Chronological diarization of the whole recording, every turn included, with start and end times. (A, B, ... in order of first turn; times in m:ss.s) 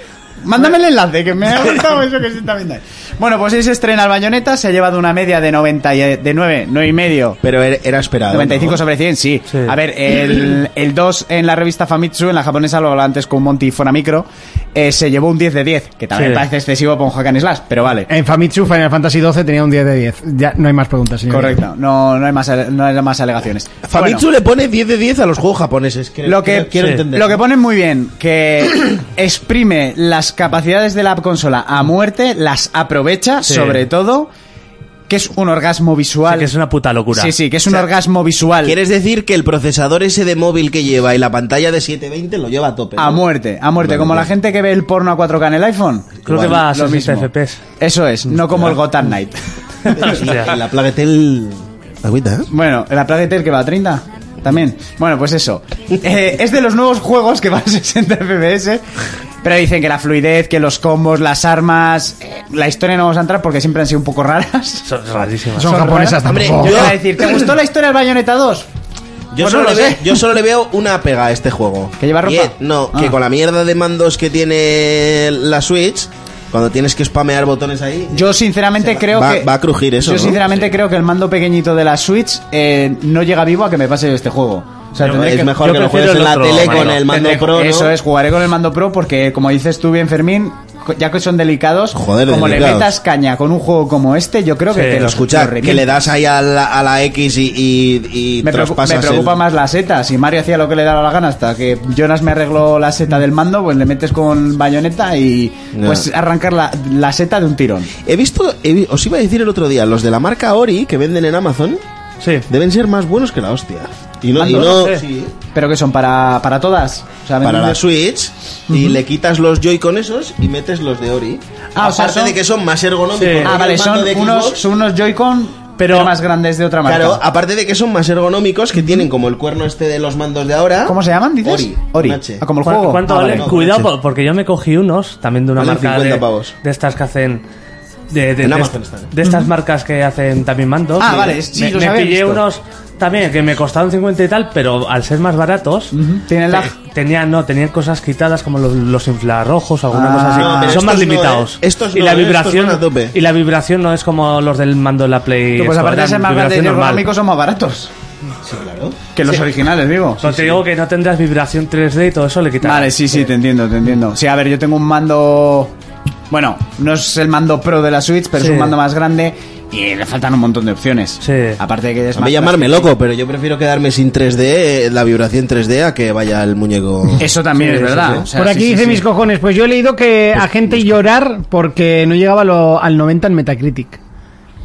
0:00.4-0:07.4 A
0:07.4-0:08.8 B
0:08.3-0:18.1 A
0:16.1-0:16.4 C
0:18.1-0:21.6 D
0:21.3-0:24.2 A
0:23.8-0:27.4 B
0:26.2-0:34.3 A
0:26.8-0:27.0 C
0:33.4-0:33.8 C
0:35.1-0:36.5 A
0:36.3-0:37.3 C
0:37.1-0:38.8 A
0:38.6-0:43.2 B
0:43.0-0:50.2 A
0:43.8-0:44.3 B
0:46.2-0:47.6 C
0:46.2-0:46.6 B
0:49.9-0:52.5 B
0:50.0-0:50.6 C
0:52.5-0:58.8 A
0:59.4-1:04.9 A
1:04.8-1:05.8 C
1:05.5-1:07.0 D
1:05.6-1:08.7 A
1:06.2-1:07.5 B
1:09.3-1:20.4 B
1:09.4-1:10.2 A
1:12.0-1:13.2 A
1:18.1-1:25.6 A
1:25.0-1:27.4 C
1:25.0-1:27.9 B
1:26.6-1:35.9 A
1:31.9-1:32.9 B
1:34.7-1:35.1 C
1:35.0-1:39.4 B
1:38.4-1:47.9 A
1:45.7-1:46.0 B
1:48.0-1:51.8 B
1:52.2-1:52.5 C
1:52.5-1:55.3 B
1:54.4-1:54.8 A
1:54.4-1:55.0 C
1:55.5-1:57.8 A
1:57.4-2:04.7 B
1:58.7-1:59.0 A
2:01.7-2:02.4 A
2:03.1-2:03.6 C
2:03.4-2:07.2 A
2:05.8-2:06.1 C
2:06.8-2:12.4 B
2:10.8-2:13.5 A
2:12.6-2:17.4 C
2:13.3-2:13.9 B
2:15.6-2:16.5 B
2:18.1-2:25.9 C
2:18.4-2:19.1 B
2:19.2-2:19.5 A
2:21.0-2:22.4 A
2:25.9-2:26.7 A
2:26.5-2:37.1 C
2:29.9-2:30.8 A
2:30.4-2:33.1 B
2:35.6-2:37.9 A
2:38.4-2:39.0 B
2:39.1-2:40.6 A
2:40.2-2:43.2 C
2:42.6-2:45.7 A
2:46.3-2:52.9 A
2:48.4-2:48.7 C
2:51.2-2:51.6 C
2:52.1-2:57.3 B
2:57.2-2:59.0 A
2:57.6-2:58.2 C
2:57.9-2:58.2 B
2:58.3-3:04.0 D